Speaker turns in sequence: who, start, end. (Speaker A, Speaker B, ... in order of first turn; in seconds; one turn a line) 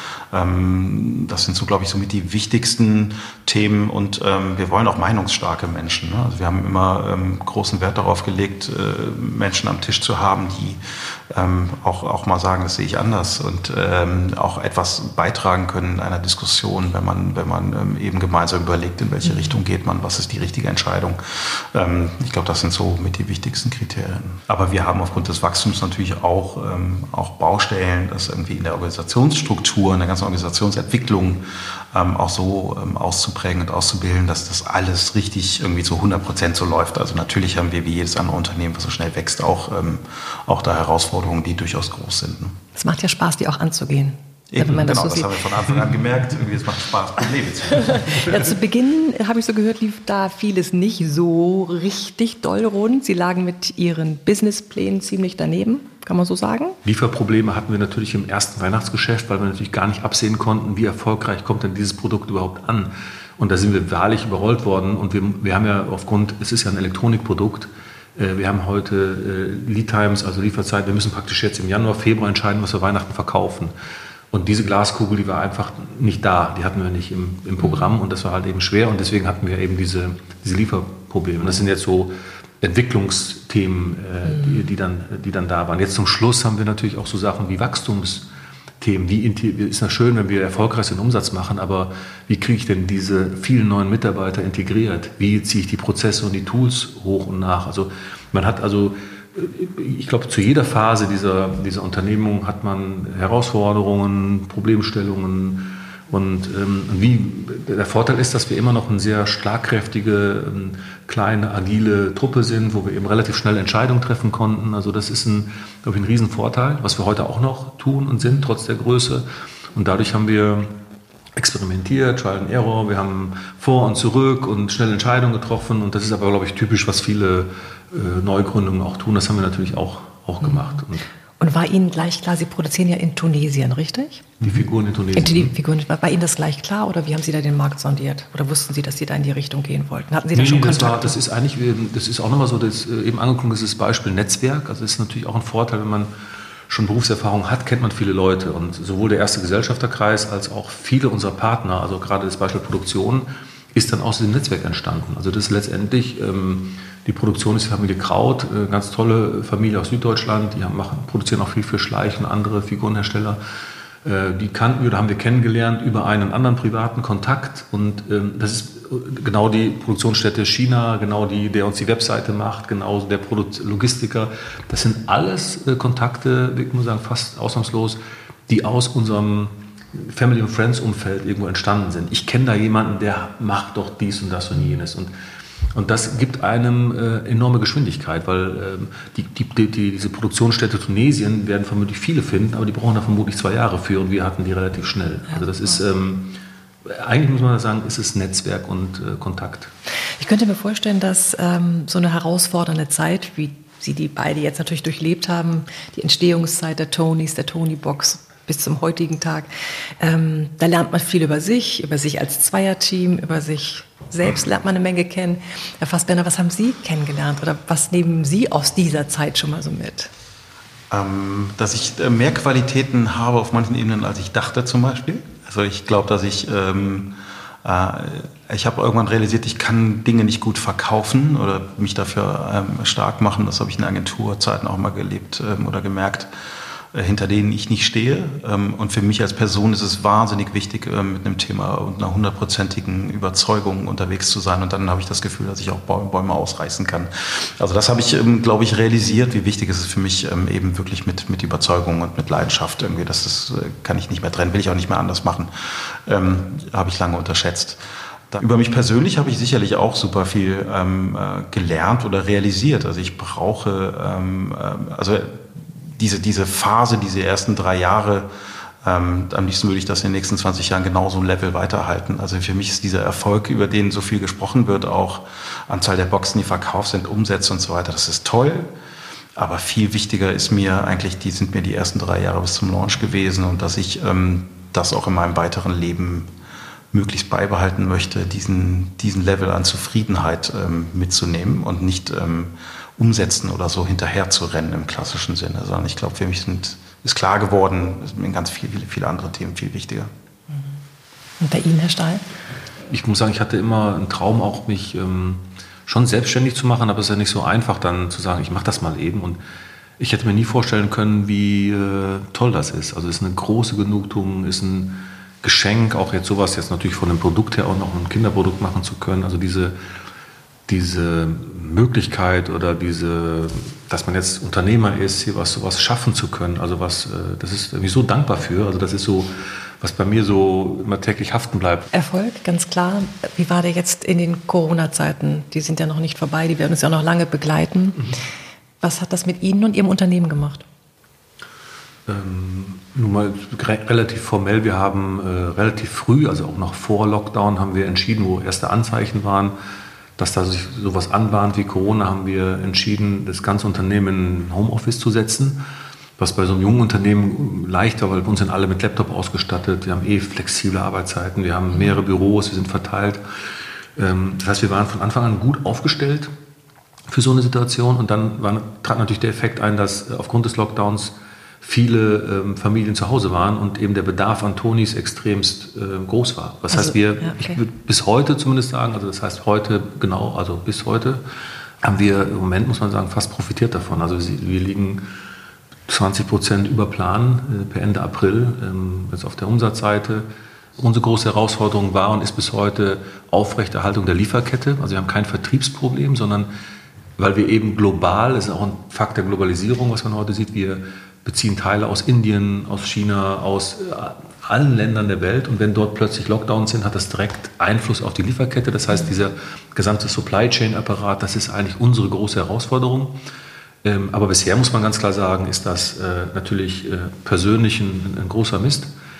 Speaker A: 0.3-42.5
Speaker B: 42.8-45.3
Speaker A: 44.5-48.2
Speaker B: 47.9-56.8
Speaker C: 56.8-73.7
Speaker C: 74.3-88.2
Speaker C: 88.8-120.7
Speaker C: 121.3-131.0
Speaker B: 130.4-130.7
Speaker B: 131.4-134.3
Speaker C: 134.4-135.5
Speaker B: 135.2-141.2
Speaker C: 140.3-146.1
Speaker C: 146.7-163.4
Speaker C: 164.0-185.1
Speaker C: 185.7-199.7
Speaker B: 195.3-195.8
Speaker B: 200.2-209.5
Speaker B: 210.0-220.1
Speaker A: 220.9-227.1
Speaker A: 227.6-236.3
Speaker A: 236.9-268.3
Speaker A: 268.8-278.7
Speaker A: 279.4-286.3
Speaker A: 286.9-300.1
Speaker B: 301.4-302.2
Speaker C: 302.9-309.4
Speaker C: 310.0-319.7
Speaker C: 320.7-331.9
Speaker B: 331.9-338.0
Speaker B: 338.8-340.6
Speaker C: 342.1-349.5
Speaker C: 350.2-355.6
Speaker C: 356.2-363.2
Speaker C: 364.0-366.3
Speaker C: 367.1-381.2
Speaker B: 376.7-377.6
Speaker C: 381.8-385.0
Speaker C: 385.9-390.3
Speaker C: 390.8-396.5
Speaker C: 397.2-413.1
Speaker C: 413.8-418.9